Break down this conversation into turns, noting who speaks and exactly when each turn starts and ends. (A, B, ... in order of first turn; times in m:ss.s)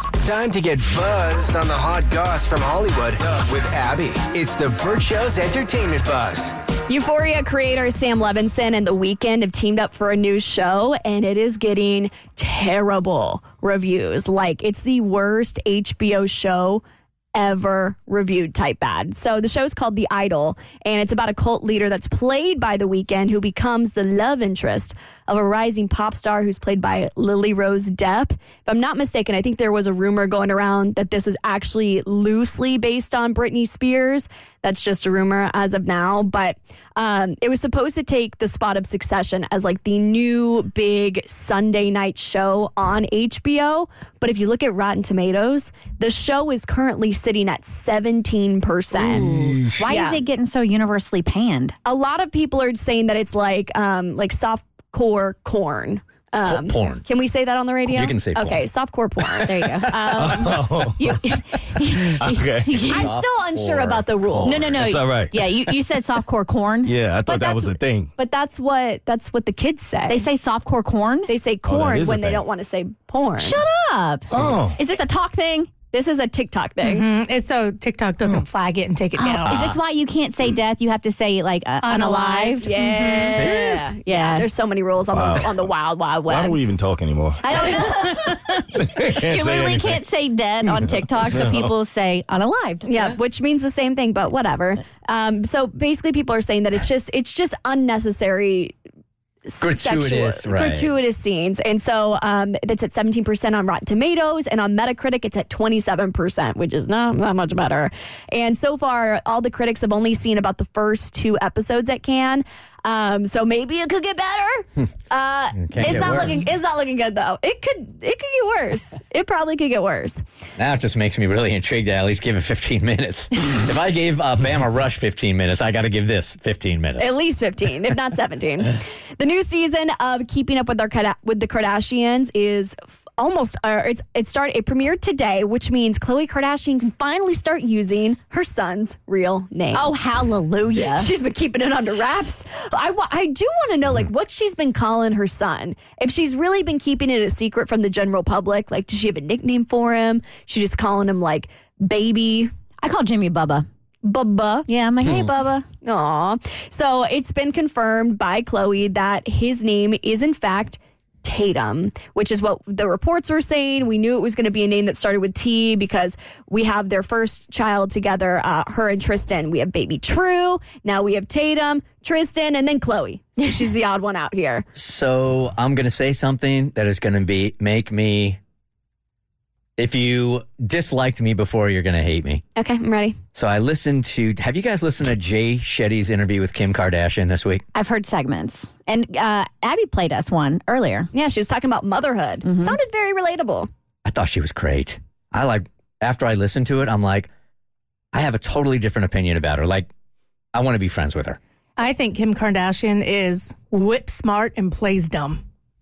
0:00.2-0:06.5 A
0:06.9-0:16.8 B
0:17.3-0:50.2 B
0:49.0-0:51.7 C
0:51.8-1:00.8 B
0:56.4-0:57.0 D
0:57.9-0:58.7 D
0:59.4-1:03.1 C
1:00.1-1:01.2 E
1:02.1-1:03.0 E
1:02.9-1:04.7 B
1:02.9-1:04.7 D
1:04.4-1:06.9 C
1:04.7-1:05.7 E
1:06.8-1:08.1 E
1:07.3-1:10.2 B
1:10.1-1:11.3 C
1:11.3-1:13.6 B
1:11.6-1:12.5 E
1:13.4-1:15.7 C
1:14.3-1:14.8 E
1:15.9-1:17.1 B
1:16.8-1:19.7 F
1:19.2-1:24.5 C
1:21.8-1:23.4 F
1:22.6-1:26.6 B
1:23.3-1:23.6 E
1:25.1-1:25.7 E
1:26.3-1:27.5 E
1:27.4-1:32.9 C
1:28.7-1:30.0 E
1:30.7-1:31.7 E
1:32.8-1:38.7 B
1:39.5-2:00.2 B
1:39.6-1:40.9 D
1:55.6-1:56.4 D
2:00.6-2:07.1 D
2:07.0-2:19.9 B
2:19.7-2:21.1 C
2:20.8-2:32.5 B
2:32.8-2:33.6 C
2:34.0-2:34.7 B
2:34.7-2:35.6 C
2:35.8-2:54.6 B
2:54.7-2:58.4 D
2:59.8-3:02.4 D
3:02.6-3:03.2 B
3:03.3-3:07.6 D
3:07.7-3:11.1 C
3:11.1-3:13.7 B
3:14.0-3:17.3 D
3:18.1-3:19.9 D
3:20.5-3:21.4 D
3:21.8-3:25.4 F